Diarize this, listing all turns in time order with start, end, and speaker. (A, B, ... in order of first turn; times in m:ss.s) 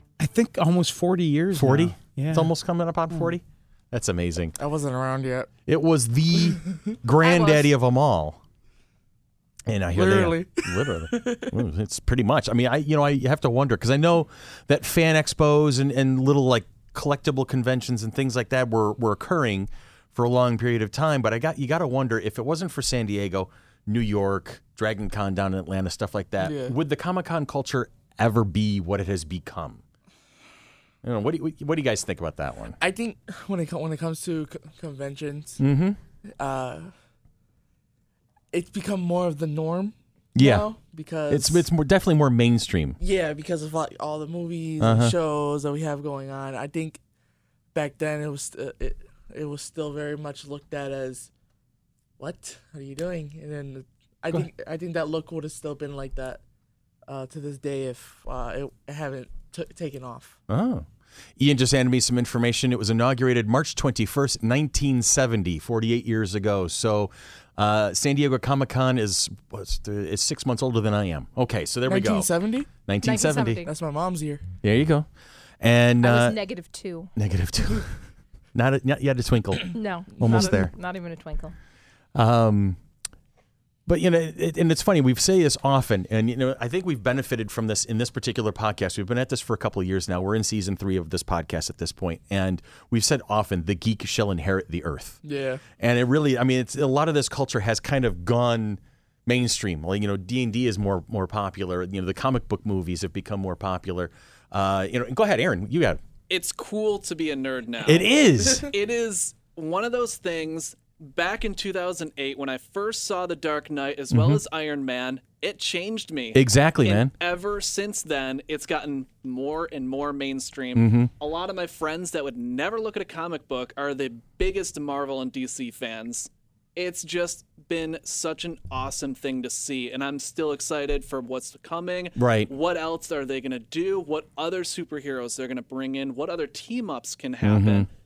0:00.2-0:02.5 A
0:01.6-0:04.6 B
0:04.6-0:05.5 C
0:05.7-0:08.4 B
0:07.2-0:07.7 D
0:09.7-0:29.8 B
0:09.9-0:11.5 C
0:26.4-0:26.8 C
0:31.0-0:32.8 B
0:32.8-0:35.6 C
0:35.6-0:36.0 B
0:36.4-0:36.9 C
0:38.5-0:41.7 C
0:40.4-0:40.7 B
0:41.3-0:43.0 B
0:43.0-0:47.0 C
0:44.8-0:45.2 B
0:47.7-0:51.3 C
0:52.2-0:56.4 C
0:57.1-1:00.4 C
1:00.5-1:12.3 B
1:11.8-1:12.7 C
1:12.9-1:13.7 B
1:13.0-1:13.7 D
1:13.6-1:14.4 C
1:14.6-1:15.1 B
1:15.6-1:16.4 B
1:16.0-1:17.1 D
1:17.2-1:17.9 B
1:18.5-1:20.7 B
1:19.7-1:21.5 D
1:22.2-1:22.8 B
1:23.9-1:35.2 B
1:35.2-1:35.6 C
1:35.8-1:46.0 B
1:46.3-2:17.9 E
1:47.8-1:48.7 B
1:54.1-1:54.4 B
1:56.3-1:57.1 B
2:00.8-2:01.1 B
2:12.2-2:12.5 B
2:17.4-2:17.9 B